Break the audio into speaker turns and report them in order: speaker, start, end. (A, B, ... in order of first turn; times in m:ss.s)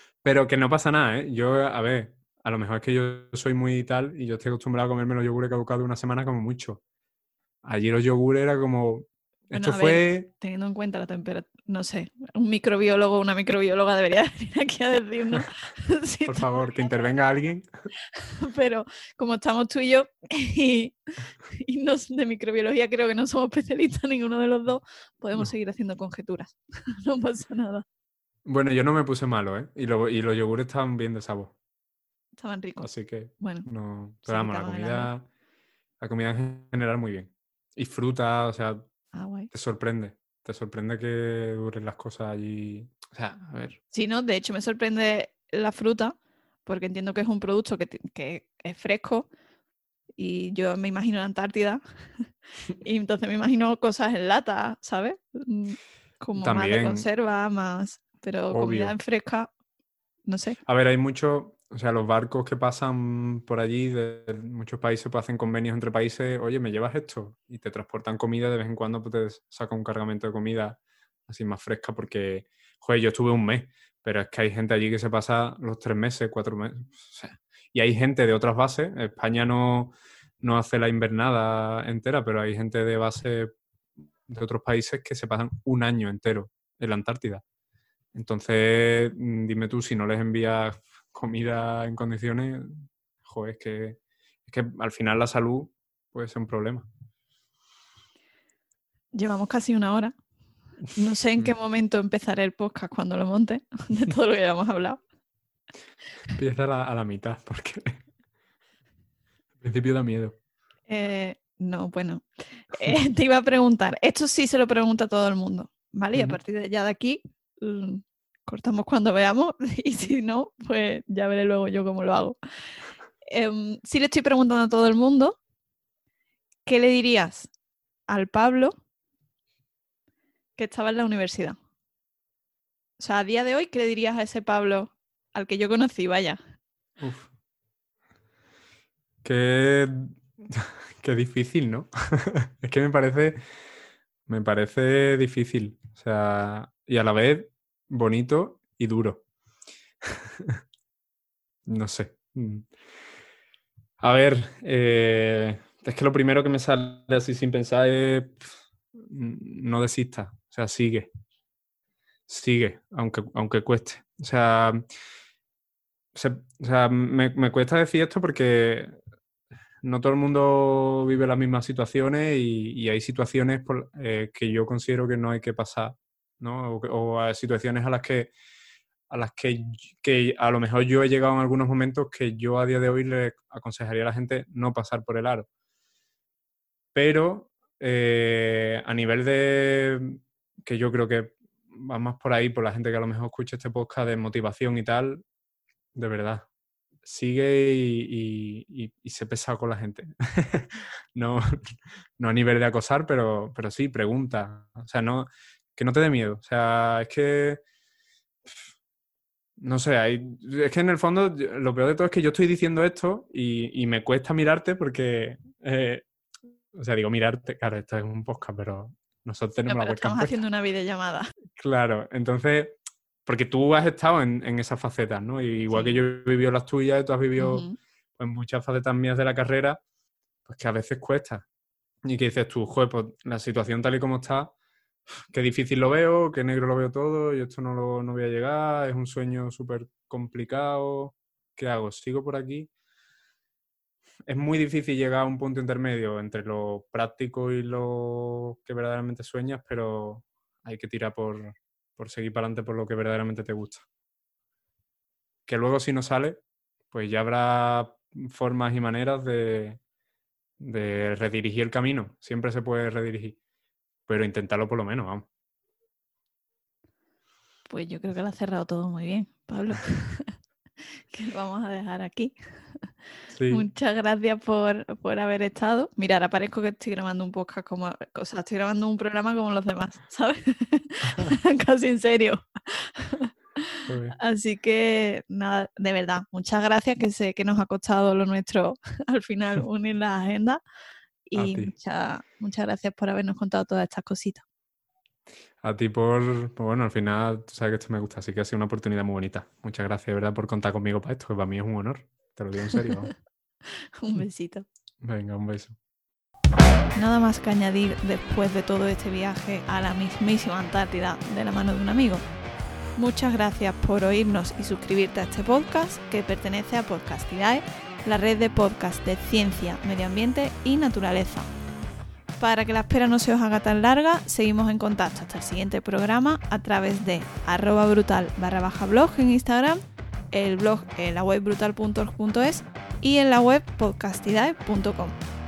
0:00.2-0:06.8 A
0:07.6-0:10.3 A
0:09.5-0:16.9 B
0:16.3-0:17.7 A
0:18.2-0:27.8 B
0:28.5-0:31.5 A
0:32.4-0:33.7 B
0:32.8-0:35.2 A
0:34.2-0:35.1 B
0:36.0-0:38.9 A
0:39.1-0:39.5 B
0:39.5-0:43.8 A
0:43.9-0:49.3 B
0:50.2-0:52.3 B
0:52.8-0:59.5 B
0:56.4-0:57.1 A
0:58.5-0:59.0 A
1:00.3-1:00.6 B
1:00.7-1:23.5 A
1:24.3-1:27.4 A
1:28.1-1:36.9 A
1:39.1-1:40.2 B
1:41.0-1:45.0 B
1:46.4-1:48.0 A
1:49.6-1:50.4 A
1:50.9-2:02.4 B
1:56.1-1:56.4 A
2:03.3-2:05.4 B
2:06.7-2:07.5 B
2:08.1-2:08.8 B
2:10.6-2:11.6 B
2:13.0-2:16.4 B
2:17.0-2:17.3 A
2:19.2-2:23.4 A
2:24.3-2:29.2 A
2:30.0-2:30.6 A
2:31.7-2:32.7 A
2:34.0-2:41.1 A
2:42.3-2:44.8 A
2:46.1-2:49.0 A
2:49.8-2:58.3 A
2:59.1-3:05.5 A
3:06.9-3:15.2 A
3:16.0-3:16.4 A
3:17.0-3:27.6 A
3:29.6-3:36.1 A
3:36.7-3:40.4 A
3:39.7-3:41.3 B
3:41.6-3:47.7 A
3:45.7-3:46.0 B
3:47.4-3:47.8 B
3:48.2-3:49.8 A
3:50.5-3:51.4 A
3:52.0-3:54.5 A
3:55.3-4:02.7 A
4:04.3-4:13.9 A
4:15.5-4:19.8 A
4:20.6-4:23.4 A
4:24.1-4:25.3 A
4:27.7-4:30.4 B
4:31.1-4:32.9 B
4:33.3-4:33.6 A
4:33.5-4:50.6 B
4:43.9-4:44.2 A
4:51.3-4:54.4 B
4:51.4-4:51.7 A
4:55.6-5:03.1 A
5:04.0-5:04.7 B
5:05.0-5:05.8 A
5:07.0-5:12.2 B
5:13.0-5:21.5 B
5:22.4-5:29.8 B
5:30.3-5:35.2 B